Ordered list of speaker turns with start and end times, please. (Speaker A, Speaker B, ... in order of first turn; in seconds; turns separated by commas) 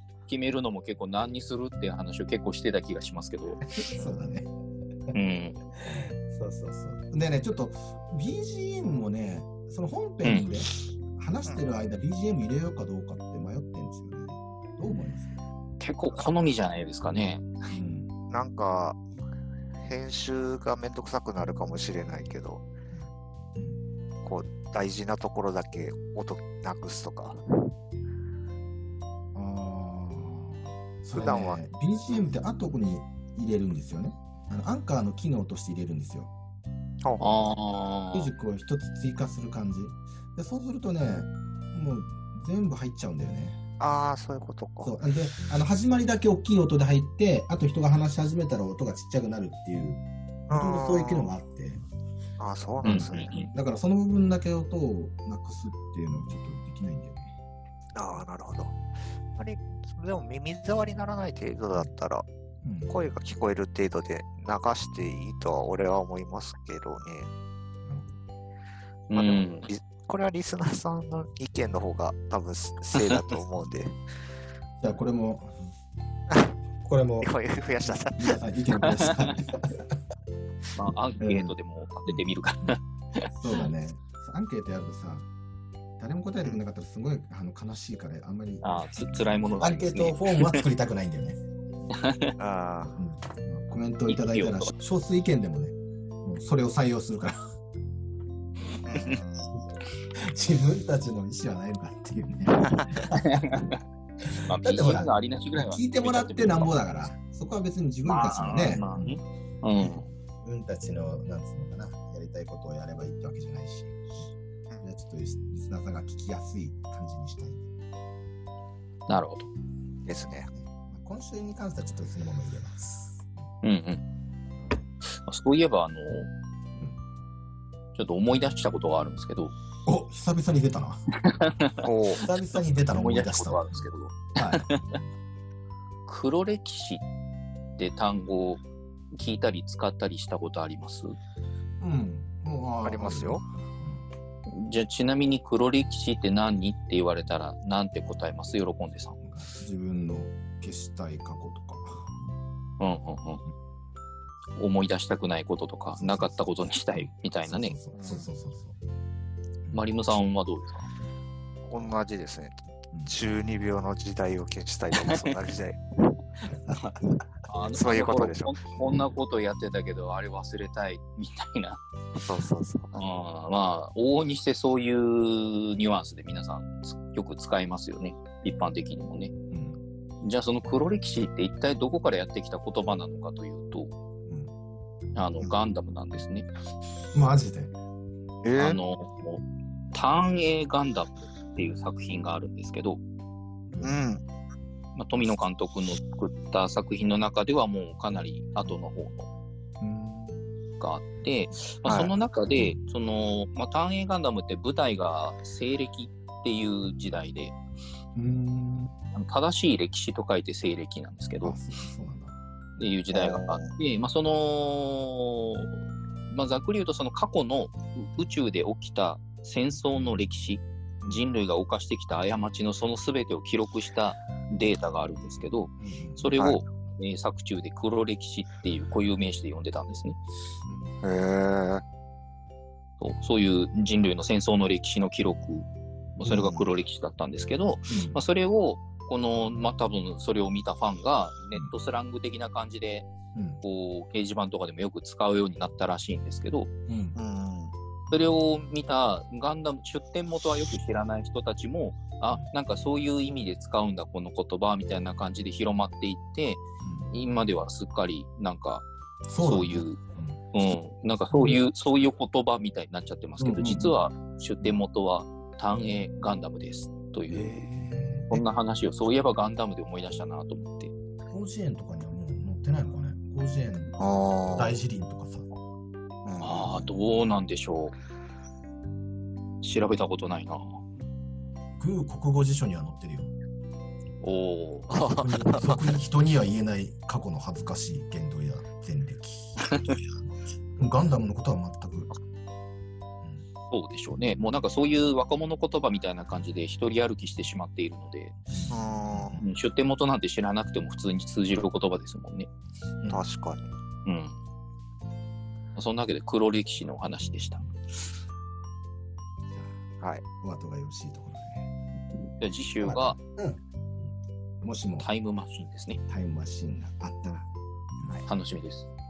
Speaker A: 0.3-3.7, Speaker B: 3.8-4.5, Speaker A: 5.1-5.6, Speaker B: 5.8-15.4, Speaker A: 15.8-17.5, Speaker B: 17.7-18.1, Speaker C: 18.3-19.0, Speaker C: 19.8-22.6, Speaker B: 22.9-23.8, Speaker C: 24.2-27.4, Speaker B: 29.3-36.3, Speaker C: 31.1-31.6, Speaker C: 37.0-37.4, Speaker A: 37.2-38.3, Speaker B: 38.1-43.6, Speaker C: 43.8-45.0, Speaker B: 44.8-51.8, Speaker C: 50.5-51.3, Speaker C: 52.4-53.4, Speaker A: 52.8-53.5, Speaker B: 52.9-57.3, Speaker C: 57.9-58.8, Speaker C: 59.4-62.2, Speaker B: 62.6-62.9, Speaker C: 62.9-67.3, Speaker B: 67.8-68.2, Speaker A: 69.1-69.7, Speaker C: 69.1-74.0, Speaker B: 74.8-75.5, Speaker B: 76.8-77.3, Speaker C: 77.2-78.4, Speaker B: 78.2-79.9, Speaker A: 78.8-79.3, Speaker A: 80.8-83.6, Speaker B: 81.2-81.5, Speaker B: 83.3-85.3, Speaker B: 86.0-91.4, Speaker A: 88.6-90.6, Speaker A: 91.9-92.3, Speaker C: 92.4-92.9, Speaker B: 92.9-97.4, Speaker A: 94.1-94.7, Speaker C: 98.8-99.5, Speaker B: 100.1-103.6, Speaker C: 102.7-103.0, Speaker A: 103.1-103.8, Speaker B: 104.2-109.2, Speaker A: 104.4-106.8, Speaker A: 108.0-110.1, Speaker B: 109.8-114.0, Speaker B: 114.8-117.7, Speaker A: 119.1-119.5, Speaker C: 120.0-120.5, Speaker B: 120.5-123.3, Speaker A: 123.6-124.0, Speaker A: 125.2-126.3, Speaker A: 127.9-129.5, Speaker B: 129.8-131.0, Speaker A: 131.1-131.9, Speaker C: 131.8-132.3, Speaker B: 132.2-134.7, Speaker A: 132.9-135.0, Speaker A: 136.1-137.0, Speaker A: 137.8-141.2, Speaker B: 141.8-144.0, Speaker C: 142.8-143.4, Speaker A: 144.5-149.2, Speaker B: 149.3-152.2, Speaker A: 152.8-153.4, Speaker A: 154.6-157.7, Speaker B: 156.0-158.7, Speaker C: 157.9-158.3, Speaker A: 159.7-160.8, Speaker C: 161.7-165.8, Speaker A: 165.0-165.3, Speaker A: 166.7-171.8, Speaker C: 167.7-168.7, Speaker C: 172.2-173.0, Speaker A: 172.9-179.3, Speaker B: 179.5-179.8, Speaker A: 180.2-183.9, Speaker B: 184.2-184.5, Speaker A: 185.1-186.5, Speaker B: 187.1-187.7, Speaker C: 188.4-188.8, Speaker A: 188.6-189.4, Speaker A: 189.9-193.0, Speaker B: 193.7-194.0, Speaker C: 193.8-194.2, Speaker A: 194.9-199.3, Speaker B: 199.8-200.4, Speaker A: 200.8-207.6, Speaker C: 201.8-202.1, Speaker B: 202.5-202.8, Speaker B: 208.1-208.9, Speaker A: 209.1-211.6, Speaker B: 211.4-212.4, Speaker A: 212.8-230.2, Speaker C: 213.1-213.7, Speaker B: 225.8-226.3, Speaker B: 230.6-230.9, Speaker C: 231.0-231.8, Speaker A: 233.0-243.1, Speaker B: 236.2-236.7, Speaker B: 237.9-238.2, Speaker B: 243.3-243.6, Speaker A: 243.6-246.7, Speaker B: 246.9-247.2, Speaker C: 247.2-247.7, Speaker A: 248.1-258.9, Speaker B: 256.8-257.1, Speaker B: 259.3-260.4, Speaker A: 259.4-260.0, Speaker A: 260.5-267.6, Speaker B: 261.3-261.6, Speaker B: 263.4-263.9, Speaker B: 267.3-268.4, Speaker A: 268.3-270.9, Speaker B: 271.3-274.0, Speaker C: 274.0-274.8, Speaker B: 274.5-275.5, Speaker C: 276.2-276.8, Speaker A: 276.4-277.9, Speaker B: 276.6-276.9, Speaker A: 279.6-280.8, Speaker B: 281.8-283.3, Speaker A: 284.2-285.0, Speaker C: 284.9-285.8, Speaker B: 285.0-292.2, Speaker A: 293.7-298.3, Speaker B: 298.5-299.5, Speaker C: 298.7-299.4, Speaker A: 299.4-302.5, Speaker C: 303.1-303.7, Speaker A: 304.0-304.4, Speaker A: 305.8-307.6, Speaker B: 309.5-309.8, Speaker B: 310.4-311.7, Speaker A: 312.4-313.2, Speaker B: 312.8-315.1, Speaker A: 315.0-316.0, Speaker B: 316.1-317.5, Speaker A: 318.2-318.9